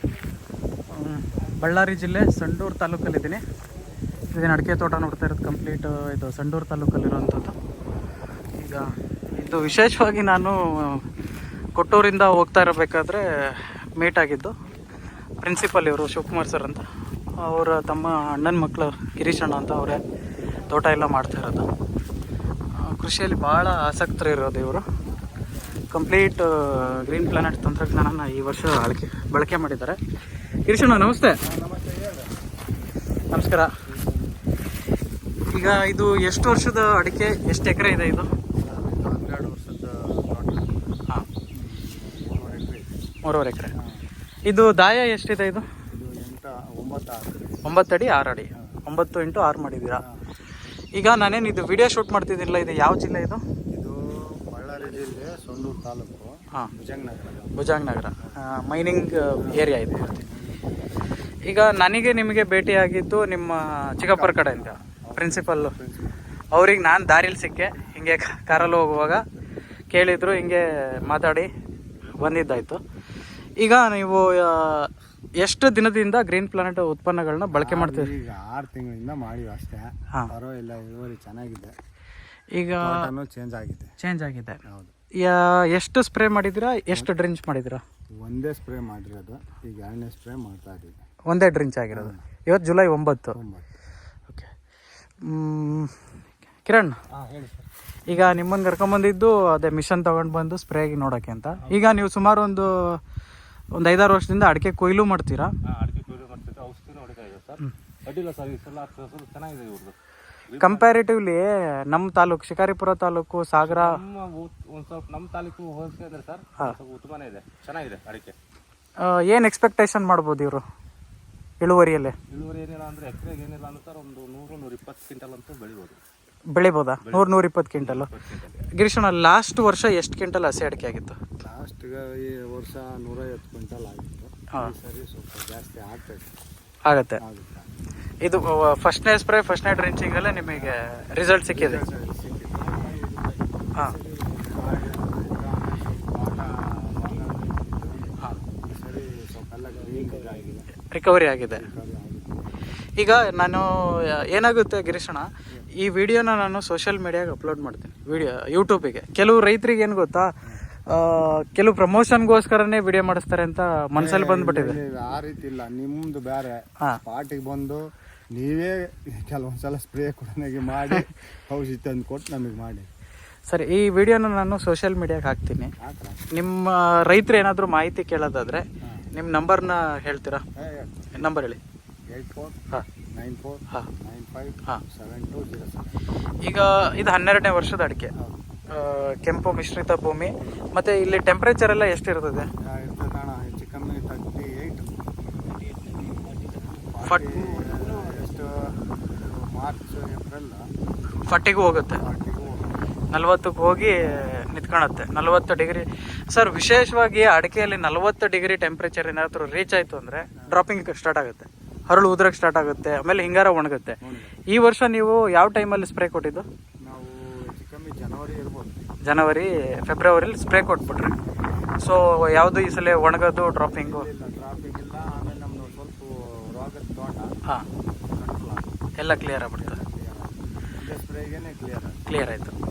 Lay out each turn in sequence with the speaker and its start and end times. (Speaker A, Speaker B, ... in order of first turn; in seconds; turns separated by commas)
Speaker A: 0.9-3.4, Speaker A: 4.3-7.5, Speaker A: 8.6-11.1, Speaker A: 11.8-14.5, Speaker A: 15.4-16.8, Speaker A: 17.4-20.0, Speaker A: 20.7-21.7, Speaker A: 22.8-24.9, Speaker A: 25.9-30.0, Speaker A: 30.7-31.4, Speaker B: 31.4-32.4, Speaker A: 33.3-33.7, Speaker B: 33.9-34.4, Speaker A: 35.5-38.3, Speaker B: 38.6-40.8, Speaker B: 41.6-42.9, Speaker A: 43.2-43.7, Speaker A: 44.5-45.7, Speaker B: 45.9-47.6, Speaker A: 47.6-50.0, Speaker A: 51.0-53.4, Speaker B: 53.7-57.6, Speaker A: 57.6-60.2, Speaker B: 59.4-61.0, Speaker A: 61.5-65.7, Speaker B: 64.1-66.2, Speaker A: 66.5-69.2, Speaker A: 69.9-71.5, Speaker A: 72.2-72.8, Speaker A: 73.6-78.1, Speaker B: 77.5-81.8, Speaker A: 82.5-83.1, Speaker B: 82.8-83.9, Speaker A: 84.0-84.6, Speaker B: 84.6-84.9, Speaker A: 85.2-87.8, Speaker B: 88.2-91.0, Speaker A: 91.3-93.4, Speaker B: 91.9-92.2, Speaker B: 93.3-93.7, Speaker A: 95.2-96.0, Speaker A: 96.7-97.0, Speaker C: 97.1-97.7, Speaker A: 98.1-103.0, Speaker A: 103.8-105.5, Speaker C: 105.7-110.0, Speaker C: 110.5-111.0, Speaker A: 110.6-114.0, Speaker C: 113.6-118.3, Speaker A: 119.0-120.6, Speaker A: 121.6-122.2, Speaker C: 122.3-126.0, Speaker A: 126.5-128.1, Speaker C: 127.0-128.6, Speaker A: 128.8-131.2, Speaker B: 131.4-136.3, Speaker A: 136.9-137.2, Speaker B: 137.2-137.7, Speaker A: 138.2-141.8, Speaker B: 140.6-140.8, Speaker B: 141.5-143.1, Speaker B: 144.4-150.7, Speaker A: 150.9-151.7, Speaker B: 151.5-152.5, Speaker A: 153.0-160.3, Speaker A: 160.9-164.8, Speaker B: 164.0-167.8, Speaker B: 168.3-172.9, Speaker A: 173.5-175.7, Speaker B: 175.8-176.3, Speaker A: 176.3-180.4, Speaker B: 180.6-181.3, Speaker A: 181.2-181.6, Speaker B: 182.1-182.6, Speaker B: 183.2-186.0, Speaker A: 186.4-188.1, Speaker A: 188.7-192.5, Speaker B: 190.3-190.6, Speaker B: 192.6-195.0, Speaker B: 196.7-200.7, Speaker A: 197.0-197.6, Speaker A: 201.3-202.0, Speaker B: 202.0-202.8, Speaker A: 203.1-216.5, Speaker B: 214.0-214.3, Speaker B: 216.9-218.8, Speaker A: 219.0-221.2, Speaker A: 221.8-224.1, Speaker B: 223.7-227.3, Speaker B: 228.1-228.8, Speaker A: 229.0-229.8, Speaker B: 229.4-232.0, Speaker A: 232.1-232.6